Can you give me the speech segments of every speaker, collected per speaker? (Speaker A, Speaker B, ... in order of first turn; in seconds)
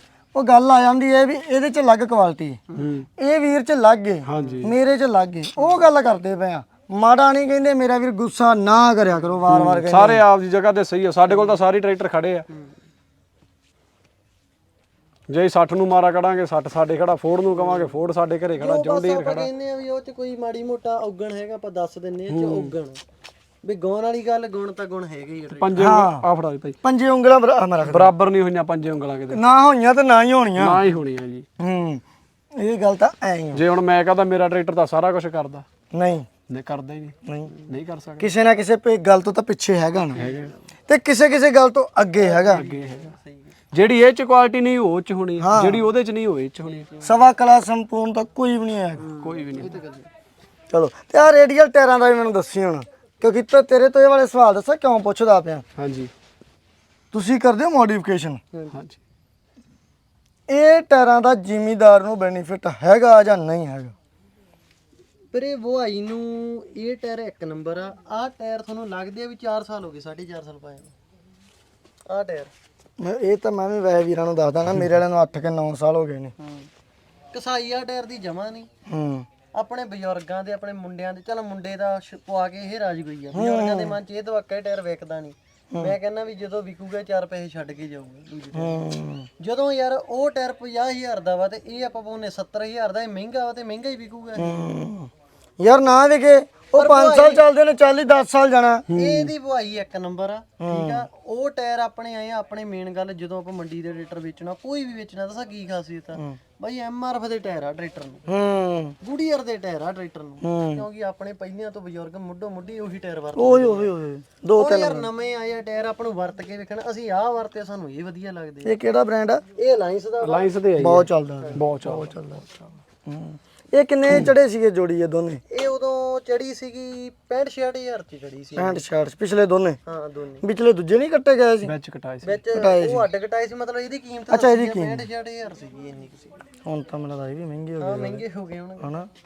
Speaker A: 0.3-2.6, 3.2-10.2, 25.8-26.2, 26.8-28.1, 29.3-30.8, 31.6-32.0, 32.5-33.6, 35.9-36.3, 37.2-37.5, 38.2-40.3, 40.9-42.6, 45.4-45.9, 47.0-49.1, 50.7-55.6, 57.1-58.4, 60.5-63.9, 73.0-76.3, 78.9-79.3, 83.3-84.0, 88.5-89.3, 94.4-98.8, 100.6-101.0, 108.3-108.9, 110.4-110.8, 113.3-115.1, 118.6-119.4, 120.8-122.4, 123.0-125.4, 128.6-129.8, 130.4-131.7, 132.5-133.1, 134.3-135.1, 136.6-138.2, 138.8-139.1
Speaker B: 2.7-3.1, 4.2-4.7, 9.5-12.5, 15.3-19.5, 22.3-22.7, 25.5-26.8, 27.8-29.4, 30.6-31.4, 33.5-35.6, 36.5-37.1, 37.7-38.3, 40.2-40.5, 42.5-43.1, 43.7-46.9, 49.1-49.8, 55.8-56.1, 58.7-59.0, 98.9-99.3, 120.2-122.1, 131.6-132.4
Speaker C: 4.3-4.6, 11.3-11.6, 17.6-17.9, 18.6-23.0, 23.6-25.8, 40.2-40.5, 42.2-43.5, 49.0-50.1, 65.3-70.9, 72.1-72.5, 76.4-76.7, 77.3-78.7, 79.5-88.8, 89.4-94.7, 96.7-97.4, 98.9-108.3, 109.0-113.9, 114.5-118.7, 119.5-120.5, 125.5-128.8, 129.8-130.4, 132.2-136.4, 137.8-138.9